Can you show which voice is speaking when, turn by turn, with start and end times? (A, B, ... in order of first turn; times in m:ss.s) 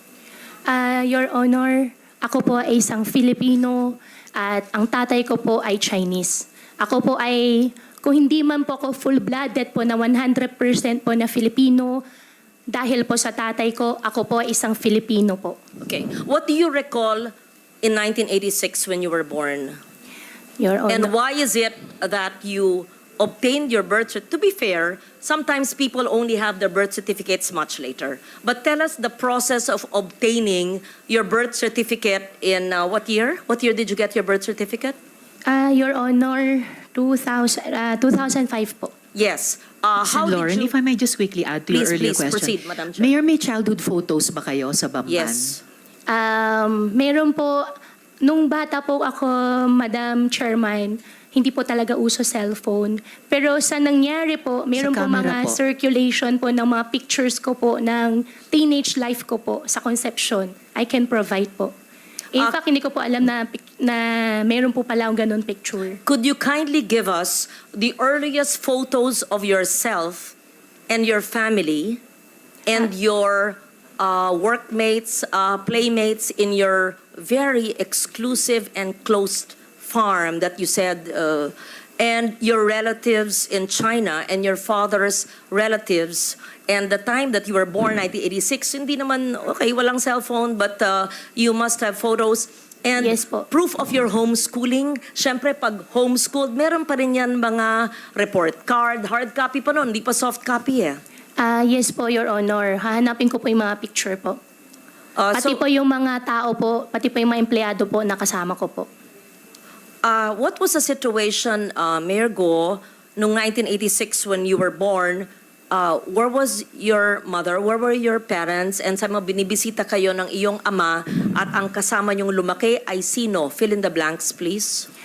0:00.7-0:12.0 A
0:12.7-0:15.6 A
0:15.8-0:17.3 B
0:17.8-0:19.8 B
0:20.6-0:21.1 A
0:20.9-0:35.0 B
0:35.5-0:38.9 A
0:39.2-0:40.7 B
0:40.0-0:45.6 C
0:41.7-0:43.1 B
0:45.1-0:45.6 B
0:46.1-0:47.6 A
0:48.2-1:01.7 A
0:54.8-0:55.6 C
1:02.4-1:06.0 A
1:06.1-1:10.4 B
1:10.9-1:12.0 B
1:12.7-1:41.0 B
1:33.0-1:33.5 A
1:41.4-1:44.4 A
1:45.2-1:45.6 B
1:45.4-1:48.9 A
1:50.0-2:04.9 B